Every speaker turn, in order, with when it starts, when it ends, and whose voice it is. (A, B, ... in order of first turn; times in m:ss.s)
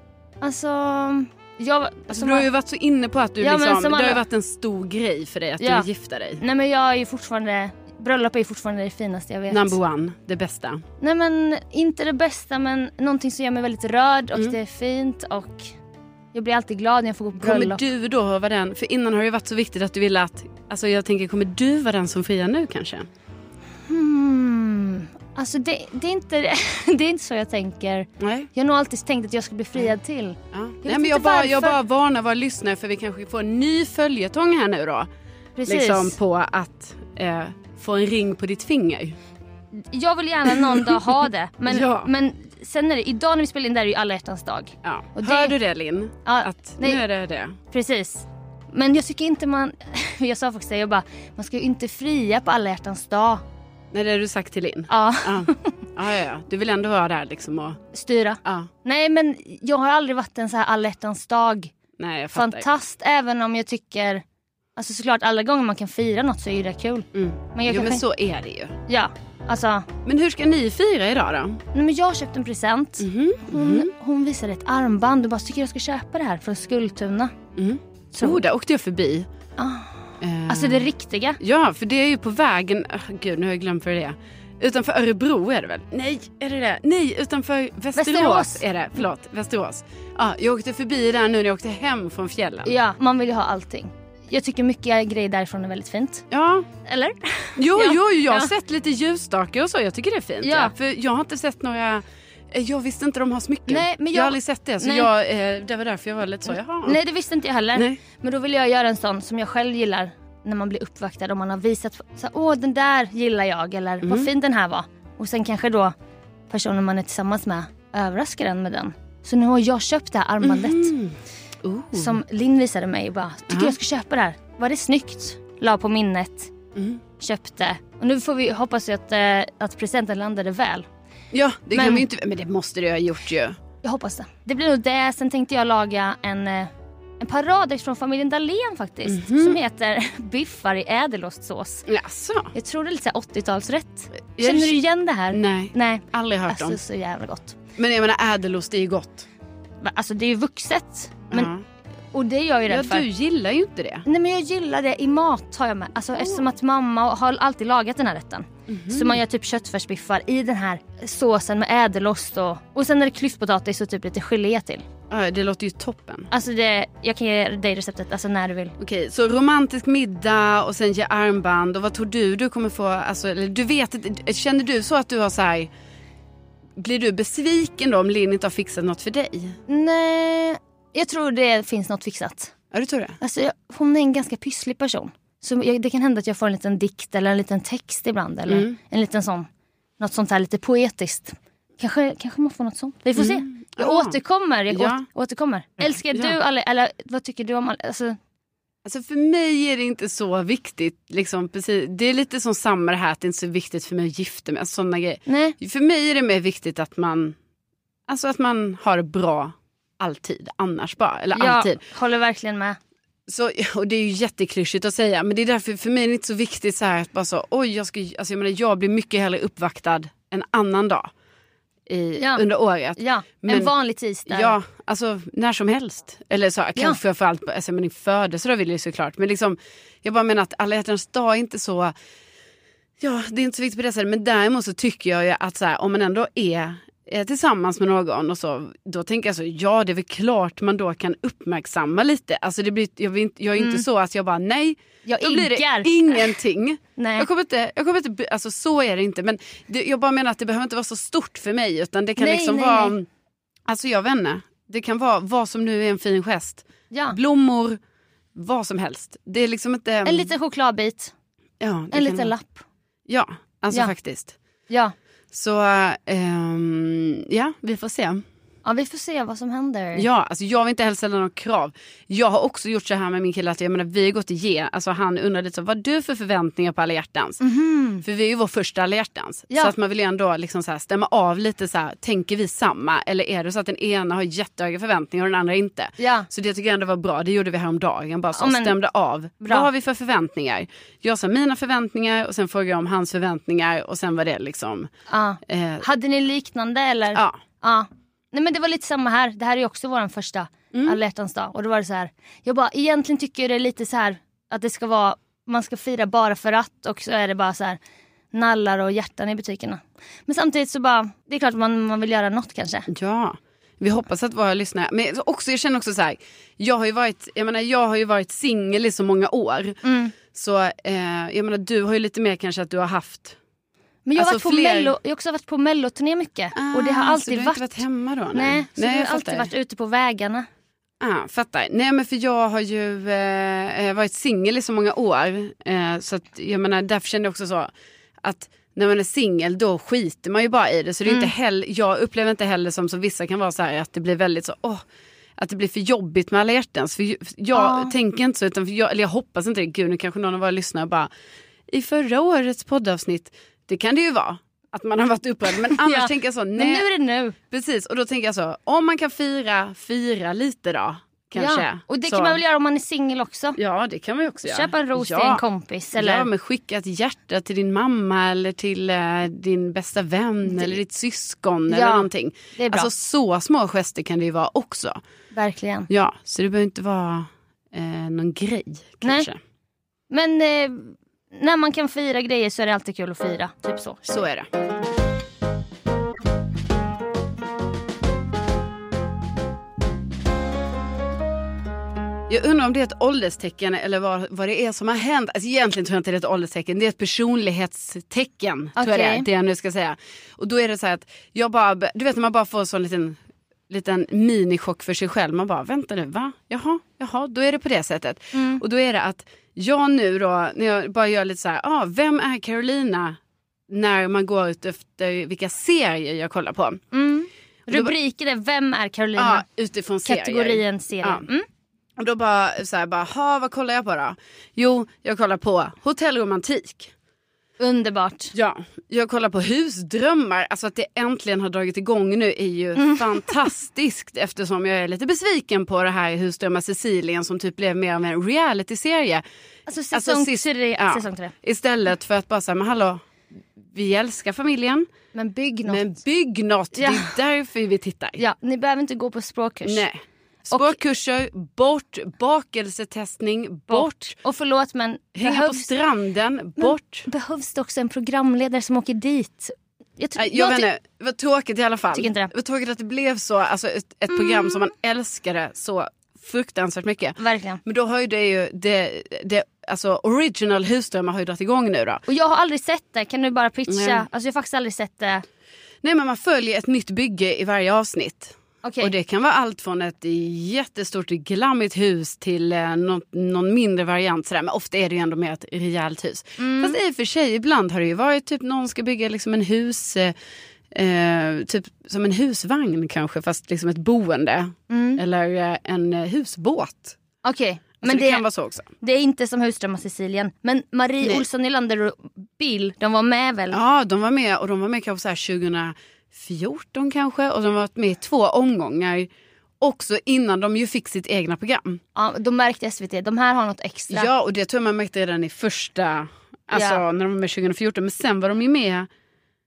0:00.4-0:02.5 A
0:02.1-0:06.4 B
0:03.4-0:04.2 A
0:05.6-0:05.9 A
0:06.4-0:09.8 A
0:09.5-0:10.8 B
0:11.0-0:15.7 A
0:16.3-0:17.8 A
0:17.4-0:23.1 B
0:23.9-0:31.8 A
0:28.2-0:28.5 B
0:30.5-0:35.1 B
0:35.6-0:36.2 A
0:35.7-0:39.2 B
0:39.7-0:45.6 A
0:40.5-0:41.1 B
0:41.7-0:42.1 B
0:44.8-0:47.6 B
0:46.2-0:47.0 A
0:47.7-0:53.4 A
0:53.9-0:57.8 B
0:54.9-0:55.8 A
0:57.9-1:01.7 A
0:58.4-0:58.7 B
1:02.0-1:02.7 B
1:02.3-1:04.2 A
1:04.8-1:08.0 A
1:07.1-1:08.8 B
1:08.9-1:09.9 A
1:10.0-1:11.6 B
1:11.7-1:17.3 A
1:13.0-1:13.9 B
1:17.6-1:19.3 B
1:18.1-1:18.4 A
1:19.6-1:21.4 A
1:20.2-1:20.9 B
1:21.4-1:32.8 B
1:28.0-1:28.6 A
1:32.6-1:36.3 A
1:36.3-1:36.7 B
1:36.8-1:38.5 A
1:37.6-1:47.0 B
1:40.4-1:40.7 A
1:43.7-1:45.1 A
1:46.8-1:55.9 A
1:47.8-1:48.0 B
1:54.0-1:54.3 B
1:56.5-2:00.9 A
2:00.4-2:02.2 B
2:01.9-2:06.5 A
2:03.5-2:03.8 B
2:06.8-2:07.0 B
2:07.2-2:10.9 A
2:11.3-2:13.6 B
2:11.8-2:12.0 A
2:13.8-2:21.9 A
2:19.1-2:19.6 B
2:21.9-2:22.5 B
2:22.5-2:27.6 A
2:24.4-2:24.8 B
2:25.3-2:26.8 B
2:27.8-2:29.3 B
2:29.8-2:31.5 A
2:31.3-2:31.6 B
2:32.1-2:33.1 A
2:32.7-2:34.0 B
2:34.0-2:44.8 A
2:36.2-2:36.4 B
2:38.7-2:39.2 B
2:45.1-2:46.3 B
2:46.3-2:48.8 A
2:48.8-2:55.7 B
2:56.8-2:59.6 B
2:59.7-3:02.5 A
3:02.7-3:03.2 B
3:03.2-3:09.5 A
3:08.5-3:08.8 B
3:10.0-3:18.2 A
3:13.2-3:14.2 B
3:14.7-3:15.0 B
3:15.8-3:16.4 B
3:18.8-3:27.4 B
3:25.3-3:25.6 A
3:28.1-3:31.8 B
3:31.3-3:32.8 A
3:33.3-3:41.1 B
3:41.9-3:43.7 B
3:42.2-3:42.4 A
3:43.0-3:44.6 A
3:44.3-3:51.9 B
3:53.0-4:13.1 B
4:03.6-4:03.8 A
4:05.1-4:06.4 A
4:07.0-4:07.3 A
4:12.2-4:13.0 A
4:13.7-4:17.8 B
4:16.9-4:17.2 A
4:18.4-4:20.3 B
4:20.0-4:21.1 A
4:21.6-4:22.3 B
4:21.9-4:22.6 A
4:23.1-4:24.4 B
4:24.7-4:24.9 A
4:25.3-4:28.2 B
4:28.6-4:30.1 A
4:30.0-4:37.4 B
4:37.4-4:38.0 A
4:38.0-4:54.9 B
4:46.0-4:46.3 A
4:48.3-4:48.8 A
4:49.4-4:49.7 A
4:55.1-5:07.8 A
4:55.5-4:55.8 B
4:57.1-4:57.4 B
5:00.7-5:01.0 B
5:08.3-5:12.9 A
5:12.9-5:23.4 B
5:19.8-5:20.2 A
5:24.1-5:27.8 A
5:24.2-5:25.0 B
5:26.6-5:29.5 B
5:28.3-5:30.5 A
5:31.0-5:37.7 B
5:38.2-5:44.8 B
5:41.1-5:41.3 A
5:45.4-5:51.1 B
5:47.5-5:47.9 A
5:51.7-5:56.9 B
5:55.6-5:57.4 A
5:57.5-6:02.4 B
6:01.4-6:03.6 A
6:03.6-6:05.4 B
6:04.4-6:06.3 A
6:05.9-6:15.0 B
6:11.7-6:12.9 A
6:15.3-6:15.9 A
6:15.9-6:19.4 B
6:19.0-6:19.3 A
6:20.1-6:24.2 A
6:24.1-6:24.5 B
6:32.3-6:53.2 B
6:38.8-6:39.3 A
6:48.3-6:48.6 A
6:53.7-6:56.8 B
6:56.9-6:59.5 A
6:59.2-7:01.3 B
7:00.0-7:01.4 A
7:02.0-7:06.9 B
7:07.6-7:08.3 A
7:08.3-7:19.2 B
7:12.8-7:13.4 A
7:19.7-7:21.3 A
7:19.9-7:23.0 B
7:23.6-7:24.9 B
7:25.1-7:25.9 A
7:25.7-7:28.2 B
7:26.8-7:27.1 A
7:28.2-7:29.9 A
7:29.6-7:34.2 B
7:30.5-7:30.8 A
7:33.7-7:35.7 A
7:35.2-7:37.1 B
7:36.6-7:40.7 A
7:40.2-7:52.0 B
7:41.9-7:42.3 A
7:47.2-7:47.6 A
7:52.1-7:55.2 A
7:53.7-7:54.1 B
7:55.8-8:10.1 B
7:58.6-7:58.9 A
8:06.4-8:06.8 A
8:10.7-8:17.0 B
8:14.7-8:15.0 A
8:17.2-8:18.2 A
8:17.8-8:18.7 B
8:18.8-8:23.6 A
8:23.5-8:29.1 B
8:29.6-8:31.8 B
8:32.0-8:34.1 A
8:33.9-8:38.9 B
8:36.5-8:36.8 A